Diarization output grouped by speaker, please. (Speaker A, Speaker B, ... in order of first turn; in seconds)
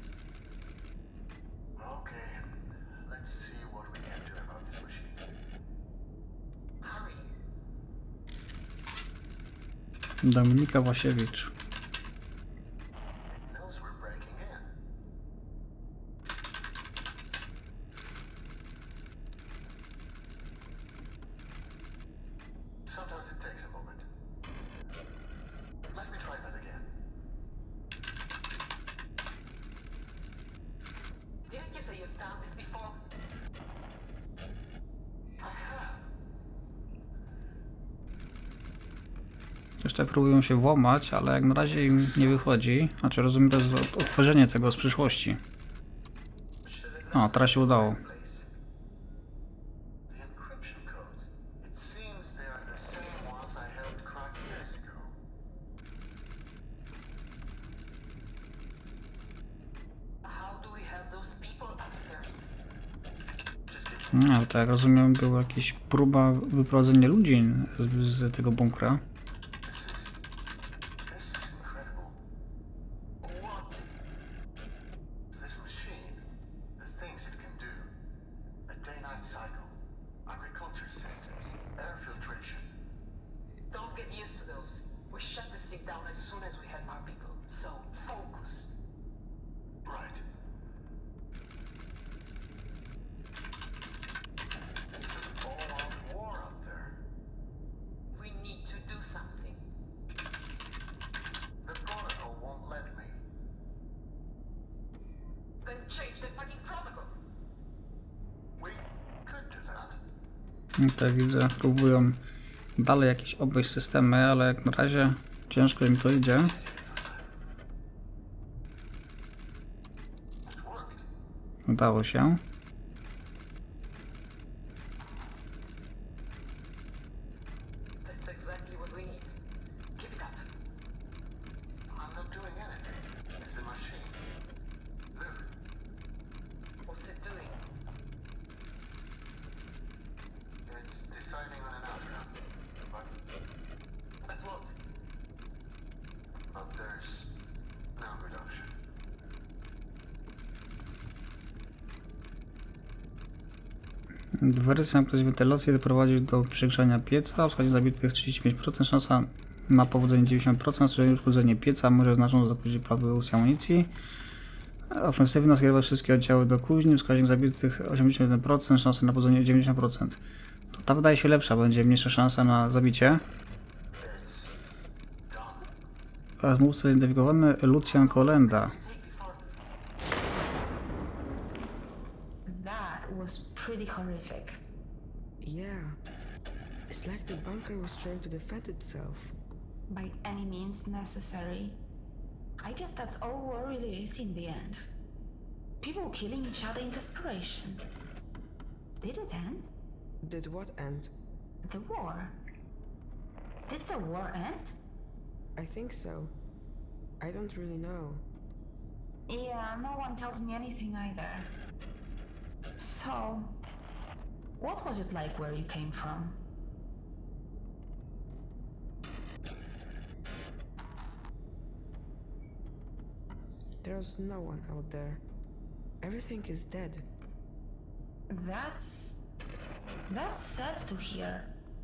Speaker A: 1.8-2.5, 3.0-5.2, 13.3-14.7, 22.9-24.1, 25.9-26.9, 35.4-36.0, 50.1-55.1, 63.7-64.4, 69.6-70.2, 71.0-72.2, 75.3-76.2, 76.8-77.9, 78.7-82.7, 89.8-90.2, 95.0-97.0, 101.6-103.2, 108.6-110.0, 116.4-117.2, 120.5-121.0, 131.9-134.2, 135.1-135.5, 140.7-143.1, 146.5-147.3, 148.0-148.7, 174.0-174.6, 175.3-175.7, 178.6-179.4
Speaker B: 6.8-7.3, 31.5-33.0, 46.6-48.5, 60.2-62.5, 73.2-73.9, 83.7-88.7, 98.1-99.6, 105.6-107.1, 128.0-129.3, 130.0-130.4, 136.9-137.6, 144.2-144.8
Speaker C: 10.2-11.5, 39.8-45.4, 47.1-48.0, 64.1-69.0, 110.8-112.2, 112.8-116.5, 121.7-122.4, 154.4-163.9, 164.9-170.2, 170.7-173.2, 176.4-178.8
Speaker D: 182.5-184.6, 189.9-191.8, 192.6-194.9, 195.8-197.9, 199.0-199.7, 201.6-202.4, 203.7-204.8, 209.3-211.5, 212.8-213.6, 214.6-216.4, 228.3-229.2, 230.1-231.5
Speaker E: 185.4-186.0, 186.9-189.3, 200.2-201.1, 205.6-206.3, 207.2-208.2, 223.8-225.2, 226.0-227.1